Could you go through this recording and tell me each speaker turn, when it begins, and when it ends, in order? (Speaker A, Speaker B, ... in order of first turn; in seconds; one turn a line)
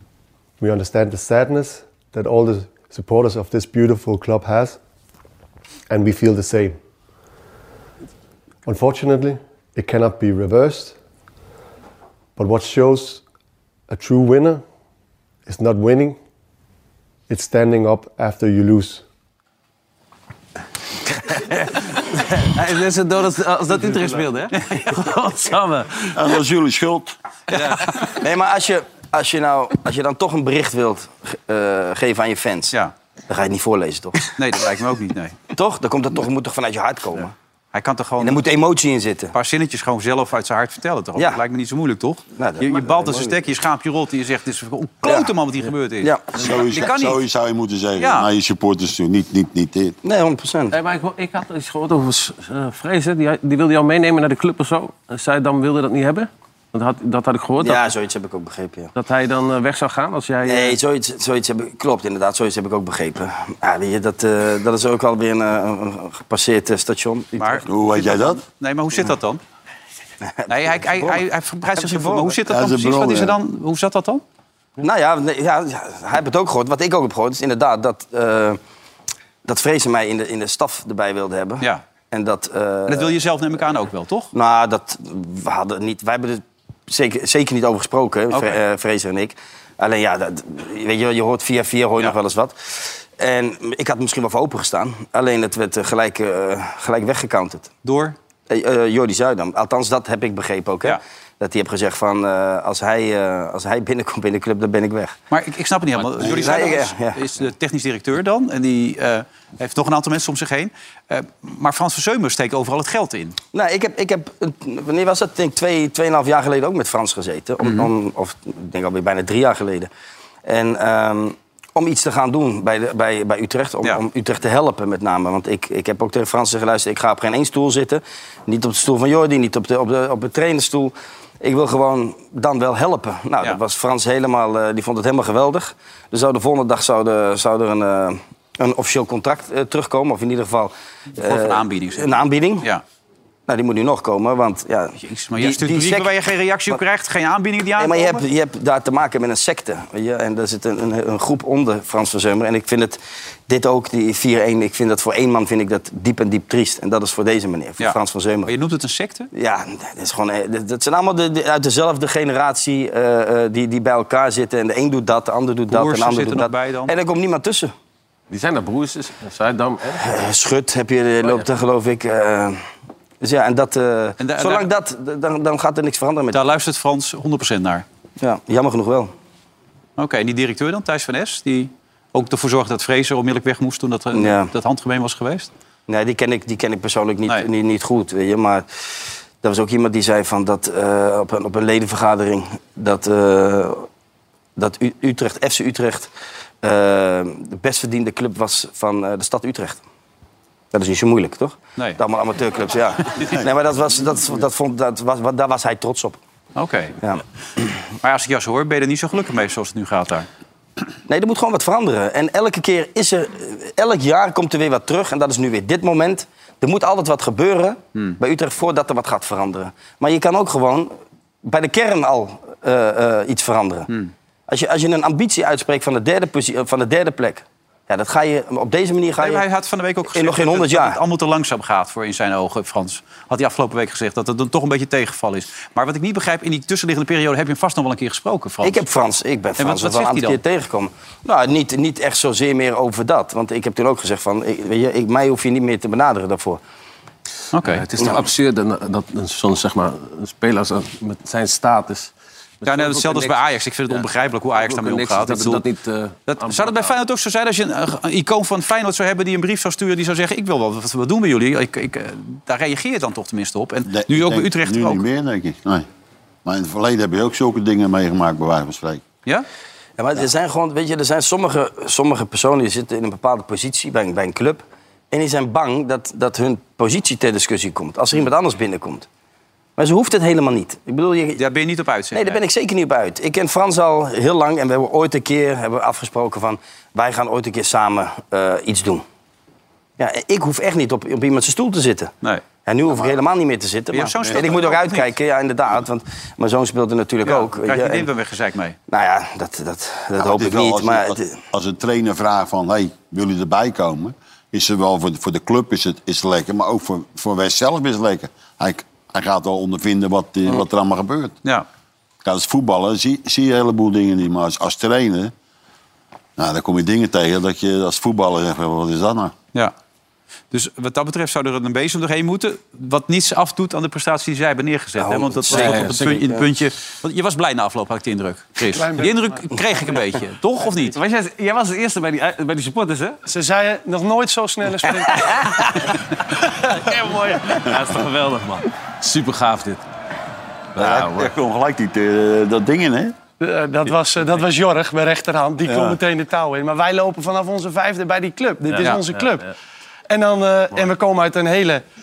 Speaker A: 0.6-4.8
Speaker A: 5.9-6.8
Speaker A: 8.6-11.0
Speaker A: 12.4-13.2
Speaker A: 13.9-14.6
Speaker A: 15.4-16.2
Speaker A: 17.3-19.0
Speaker B: 21.3-26.1
Speaker C: 26.1-27.1
Speaker D: 27.5-27.9
Speaker E: 28.1-32.7
Speaker E: 33.3-34.3
Speaker D: 34.4-35.4
Speaker E: 35.5-37.3
Speaker D: 37.7-38.5
Speaker E: 38.2-39.3
Speaker D: 39.3-47.2
Speaker E: 42.4-43.3
Speaker E: 45.0-45.3
Speaker E: 46.0-46.3
Speaker C: 46.4-50.0
Speaker D: 48.0-48.3
Speaker E: 50.0-50.8
Speaker B: 50.7-57.9
Speaker E: 57.6-58.9
Speaker B: 58.9-60.8
Speaker E: 60.4-67.7
Speaker D: 67.3-69.4
Speaker C: 67.7-68.4
Speaker E: 70.2-71.2
Speaker D: 70.5-74.2
Speaker E: 71.7-72.3
Speaker C: 72.5-73.4
Speaker E: 74.8-78.6
Speaker E: 79.4-83.2
Speaker D: 82.9-84.3
Speaker E: 84.3-97.7
Speaker D: 88.3-88.6
Speaker D: 97.8-98.2
Speaker E: 98.5-105.2
Speaker D: 105.3-113.4
Speaker E: 106.2-107.2
Speaker E: 113.5-119.9
Speaker D: 117.6-117.9
Speaker E: 120.4-142.7
Speaker D: 141.2-142.8
Speaker E: 143.5-146.1
Speaker D: 145.0-148.2
Speaker E: 147.8-158.5
Speaker D: 157.8-159.3
Speaker E: 159.3-167.7
Speaker D: 165.7-166.9
Speaker B: 168.3-170.1
Speaker E: 170.0-172.6
Speaker E: 173.2-176.4
Speaker D: 174.2-174.7
Speaker D: 176.3-177.8
Speaker E: 178.2-179.1
Speaker D: 180.0-185.5
Speaker E: 184.1-184.5
Speaker E: 185.9-188.8
Speaker E: 189.4-193.9
Speaker E: 194.6-196.1
Speaker E: 196.6-199.8
Speaker E: 200.7-206.2
Speaker D: 206.6-206.9
Speaker D: 208.0-210.3
Speaker E: 211.1-220.9
Speaker E: 221.4-223.9
Speaker E: 224.5-229.4
Speaker D: 229.2-238.8
Speaker E: 230.1-231.0
Speaker E: 238.6-246.6
Speaker D: 239.6-240.4
Speaker D: 247.5-247.8
Speaker B: 247.6-253.4
Speaker D: 252.6-255.6
Speaker B: 254.6-256.9
Speaker D: 256.3-265.0
Speaker C: 263.9-265.9
Speaker C: 266.4-269.0
Speaker E: 270.0-279.1
Speaker E: 279.8-281.4
Speaker D: 281.4-282.4
Speaker E: 282.1-289.0
Speaker E: 290.0-292.1
Speaker E: 292.6-298.1
Speaker D: 293.9-295.1
Speaker D: 297.2-298.8
Speaker E: 298.9-301.3
Speaker C: 300.1-311.3
Speaker C: 312.2-315.3
Speaker C: 316.4-319.3
Speaker D: 320.5-330.9
Speaker E: 325.0-326.4
Speaker B: 325.5-326.1
Speaker F: 328.7-329.4
Speaker B: 330.9-333.2
Speaker F: 333.3-335.2
Speaker B: 335.1-339.8
Speaker B: 340.8-341.3
Speaker C: 340.8-343.1
Speaker F: 343.4-349.4
Speaker C: 345.6-346.0
Speaker B: 348.7-349.5
Speaker F: 350.1-351.8